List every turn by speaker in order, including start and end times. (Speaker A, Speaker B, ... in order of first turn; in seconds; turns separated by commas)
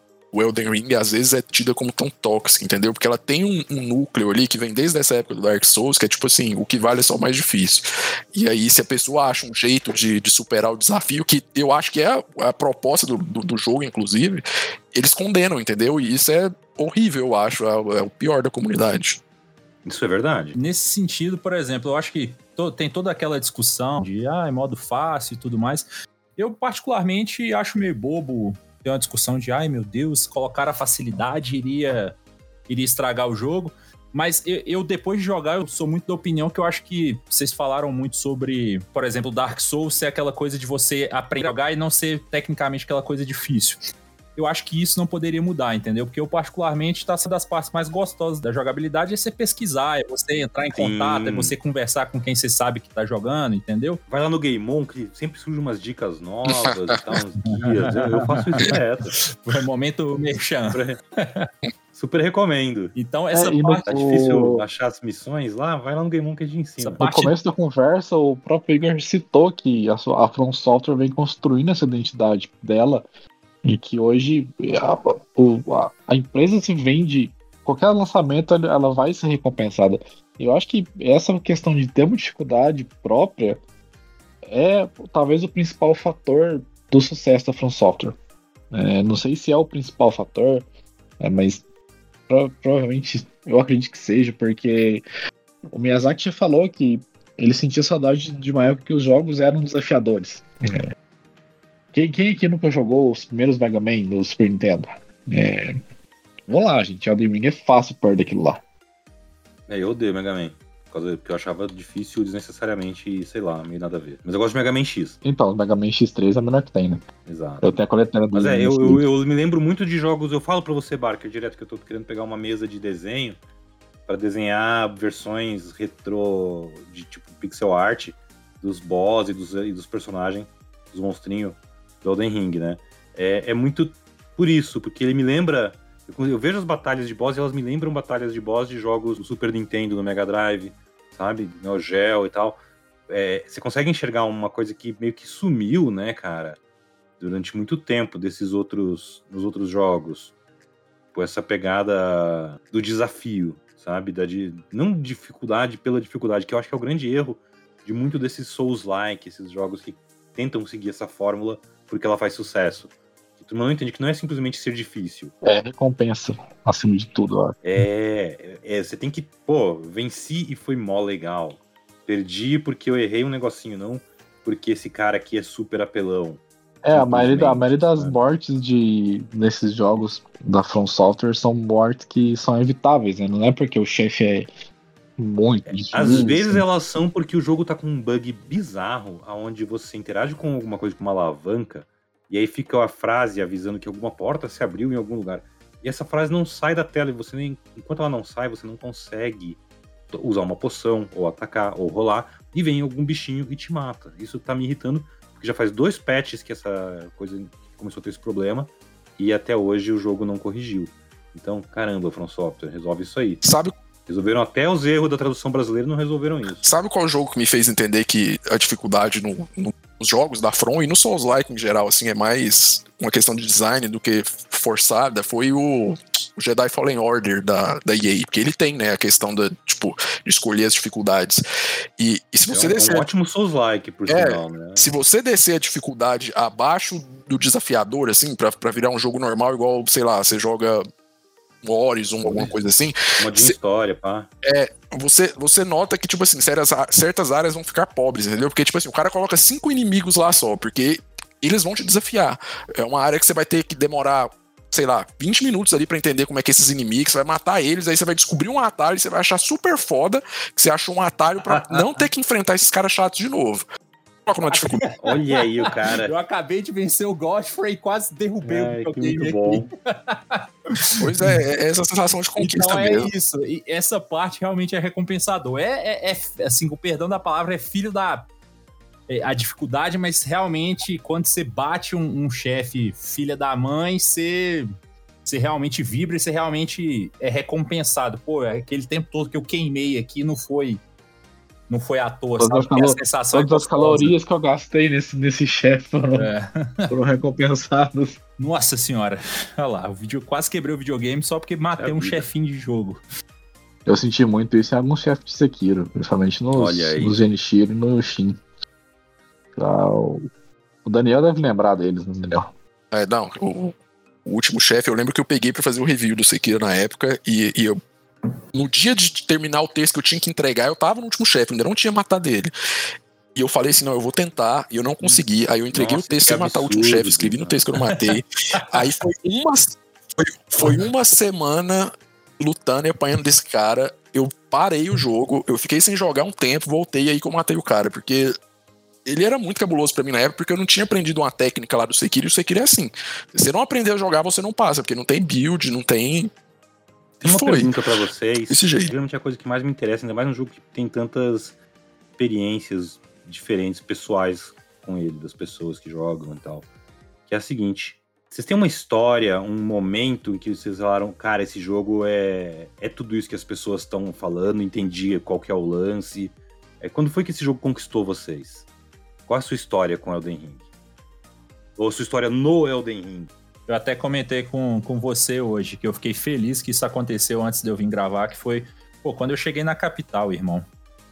Speaker A: 0.3-19.2, Speaker B: 19.8-20.6, Speaker C: 20.6-32.2, Speaker C: 32.7-43.8, Speaker C: 44.4-54.0, Speaker B: 50.7-51.6, Speaker B: 54.1-59.2, Speaker A: 56.6-57.0, Speaker C: 57.5-58.8, Speaker C: 59.3-61.5, Speaker B: 60.7-61.0, Speaker B: 61.9-63.0, Speaker C: 63.0-63.9, Speaker D: 63.3-64.6, Speaker B: 63.9-67.0, Speaker C: 66.8-67.3, Speaker D: 67.0-73.1, Speaker D: 73.6-83.6, Speaker D: 84.5-88.2, Speaker D: 88.7-90.7, Speaker D: 91.2-91.6, Speaker D: 92.3-95.0, Speaker D: 95.7-100.8, Speaker D: 101.9-105.8, Speaker D: 106.5-108.6, Speaker B: 109.7-115.2, Speaker D: 115.2-117.0, Speaker B: 117.2-117.8, Speaker D: 117.6-119.0, Speaker B: 118.3-123.4, Speaker B: 124.1-146.6, Speaker B: 147.2-150.3, Speaker B: 151.1-165.3, Speaker D: 165.4-167.6, Speaker B: 167.6-176.4, Speaker D: 176.8-184.5, Speaker B: 176.9-178.2, Speaker D: 185.2-186.6, Speaker B: 185.7-199.6, Speaker B: 200.1-213.4, Speaker A: 213.4-213.7, Speaker B: 214.1-216.7, Speaker A: 216.6-231.4, Speaker A: 232.0-233.1, Speaker B: 232.5-234.9, Speaker A: 234.1-240.8, Speaker A: 241.6-243.6, Speaker B: 242.2-242.6, Speaker B: 243.2-244.3, Speaker A: 244.4-263.6, Speaker B: 261.4-262.1, Speaker A: 264.3-264.8, Speaker C: 264.5-271.4, Speaker B: 265.0-266.1, Speaker B: 268.4-269.7, Speaker A: 270.9-273.1, Speaker C: 272.4-278.3, Speaker C: 279.1-284.7, Speaker C: 285.2-290.8, Speaker C: 291.7-294.2, Speaker D: 292.4-296.3, Speaker C: 296.1-296.9, Speaker D: 296.9-298.2, Speaker C: 298.4-303.0, Speaker B: 301.8-302.3, Speaker D: 303.9-308.4, Speaker B: 306.5-307.2, Speaker D: 309.6-310.3, Speaker D: 310.8-312.5, Speaker A: 312.9-317.8, Speaker A: 318.5-322.5, Speaker A: 323.4-338.4, Speaker B: 325.7-327.6, Speaker A: 339.1-346.3, Speaker B: 347.2-351.6, Speaker A: 347.2-347.7, Speaker A: 348.5-348.9, Speaker B: 352.2-356.7, Speaker B: 357.3-368.7, Speaker B: 369.3-370.6, Speaker B: 371.8-373.3, Speaker C: 373.7-380.7